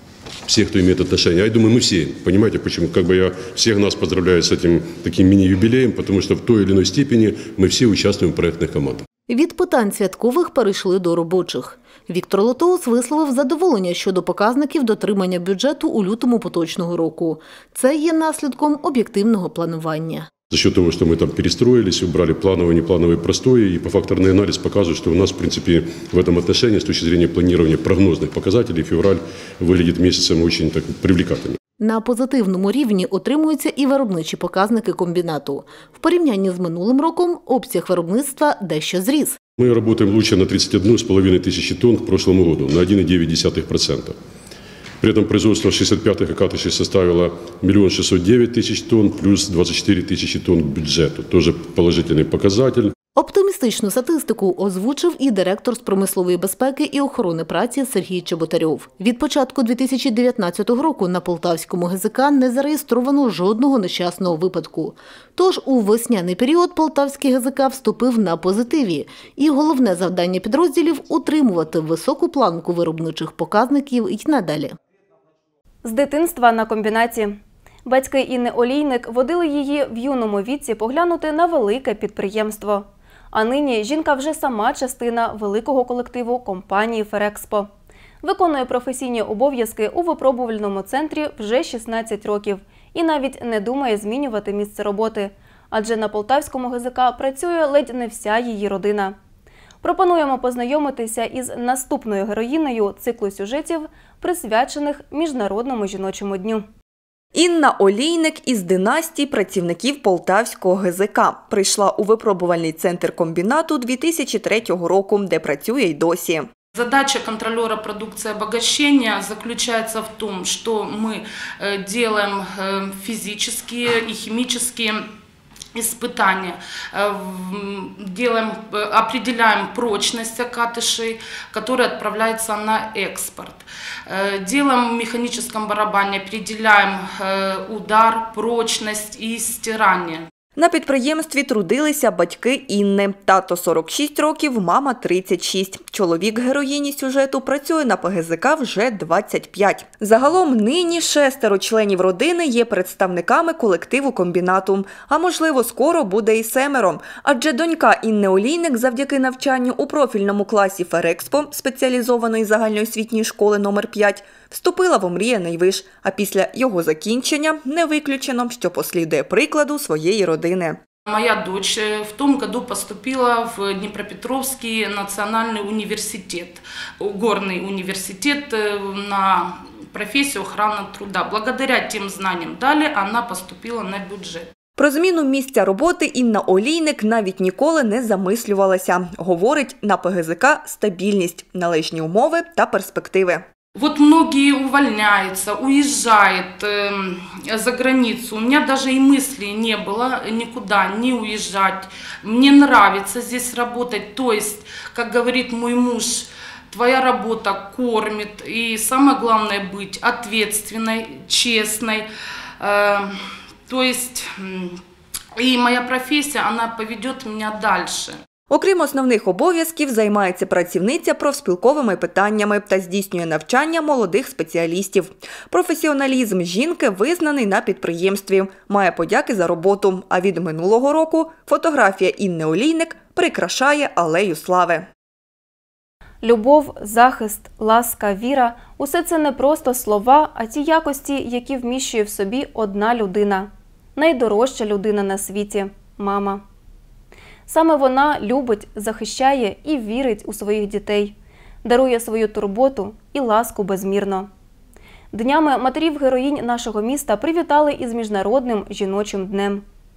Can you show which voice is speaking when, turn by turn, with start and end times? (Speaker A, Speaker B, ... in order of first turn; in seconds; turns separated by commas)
Speaker A: 0.5-9.1, Speaker B: 9.3-20.3, Speaker A: 20.5-31.6, Speaker B: 31.8-39.4, Speaker A: 39.6-44.1, Speaker A: 45.0-52.9, Speaker B: 53.1-74.7, Speaker C: 75.8-87.7, Speaker C: 88.2-99.2, Speaker C: 99.8-106.6, Speaker D: 107.3-116.5, Speaker E: 116.7-125.0, Speaker E: 125.8-140.3, Speaker D: 140.6-170.8, Speaker E: 171.1-184.5, Speaker D: 184.8-193.4, Speaker E: 193.8-212.1, Speaker E: 212.6-213.1, Speaker E: 213.7-214.8, Speaker E: 215.4-218.2, Speaker D: 218.5-234.9, Speaker C: 236.2-246.4, Speaker C: 247.5-254.3, Speaker C: 255.1-259.6